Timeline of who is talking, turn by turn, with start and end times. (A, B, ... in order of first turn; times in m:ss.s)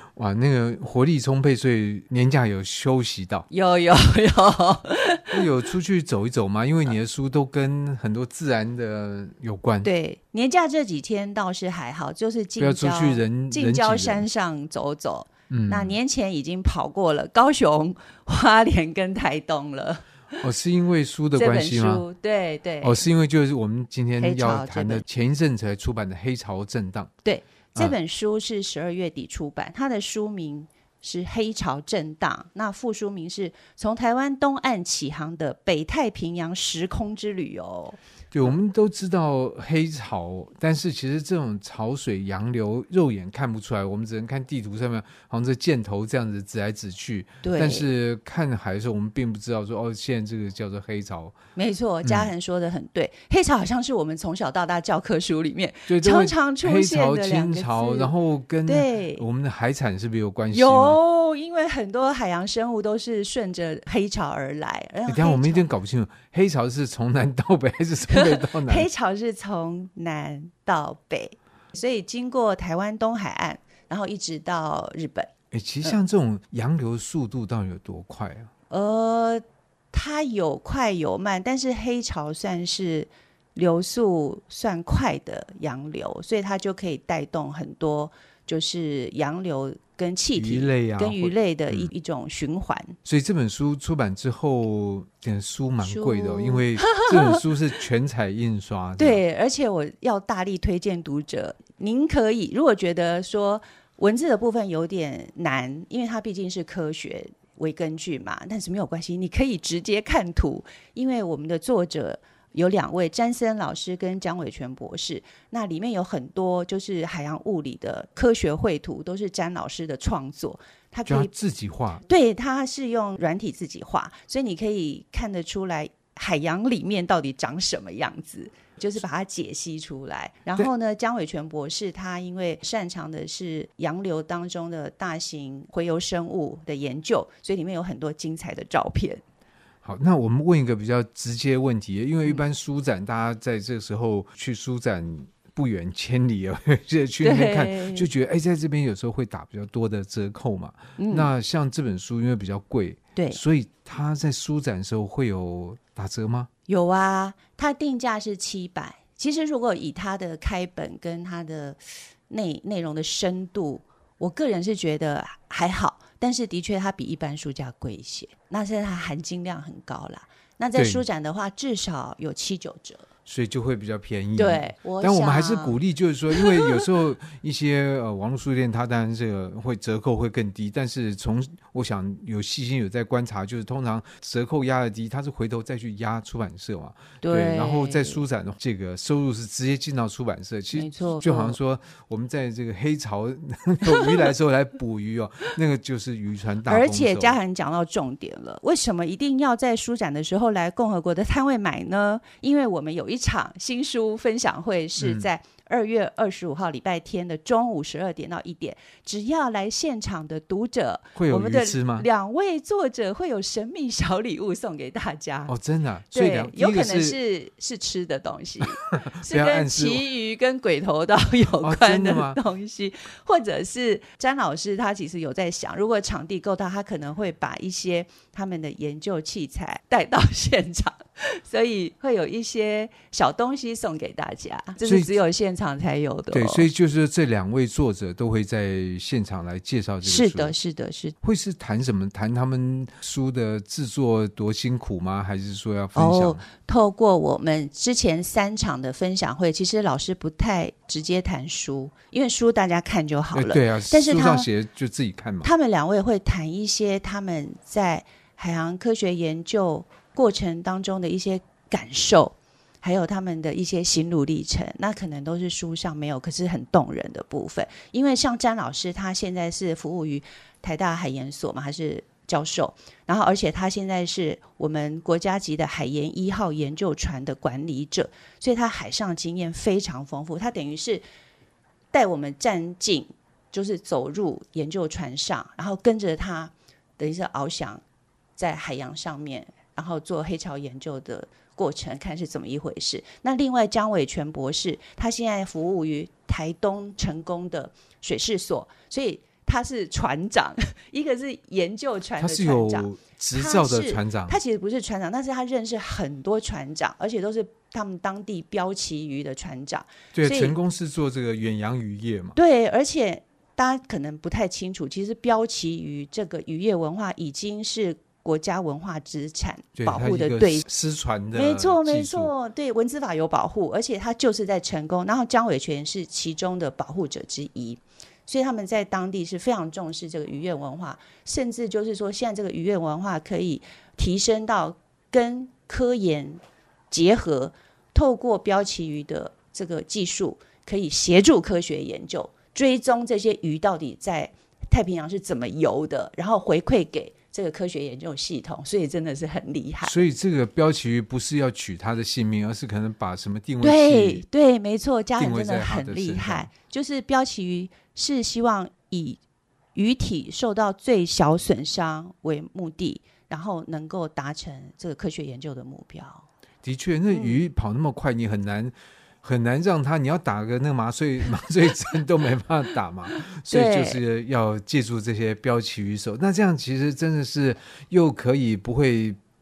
0:00.2-0:03.4 A
0:03.5-0:05.5 B
0:05.3-0:09.9 A
0:09.8-0:20.4 B
0:12.6-0:14.3 A
0:15.5-0:16.0 A
0:20.4-0:22.0 A
0:21.3-0:23.1 B
0:22.8-0:27.1 A
0:24.2-0:25.0 B
0:27.2-0:38.0 B
0:38.3-0:51.3 A
0:47.4-0:47.9 B
0:51.6-0:58.1 B
0:52.0-0:52.3 A
0:55.9-1:01.0 A
0:58.6-0:59.2 B
1:00.5-1:05.7 B
1:05.0-1:08.9 A
1:08.1-1:15.3 B
1:15.5-1:18.5 A
1:18.7-1:33.0 B
1:30.3-1:31.9 A
1:33.0-1:39.2 A
1:35.8-1:37.4 B
1:39.0-2:01.3 B
2:01.1-2:02.0 A
2:02.0-2:19.2 B
2:19.8-2:36.5 A
2:27.2-2:28.1 B
2:31.0-2:31.3 B
2:36.7-2:53.1 B
2:50.7-2:51.0 A
2:53.2-3:17.4 A
2:54.4-2:55.8 B
2:56.3-2:56.8 B
3:07.2-3:08.2 B
3:10.7-3:11.6 B
3:13.8-3:14.3 B
3:16.6-3:35.5 B
3:25.0-3:25.3 A
3:31.1-3:32.1 A
3:35.5-3:37.2 A
3:36.1-3:56.7 B
3:39.0-3:40.0 A
3:41.6-3:42.4 A
3:54.8-3:55.1 A
3:56.3-4:00.5 A
4:00.0-4:01.1 B
4:01.2-4:06.4 A
4:05.9-4:14.5 B
4:13.3-4:15.5 A
4:15.4-4:41.0 B
4:41.9-4:47.8 B
4:48.4-5:10.6 B
5:02.2-5:04.4 A
5:10.1-5:12.4 A
5:12.4-5:20.6 B
5:19.8-5:22.3 A
5:21.3-5:50.0 B
5:49.8-5:54.2 A
5:53.6-5:59.2 B
5:55.2-5:56.5 A
5:59.7-6:06.2 B
6:06.6-6:19.2 A
6:07.1-6:07.4 B
6:13.5-6:14.0 B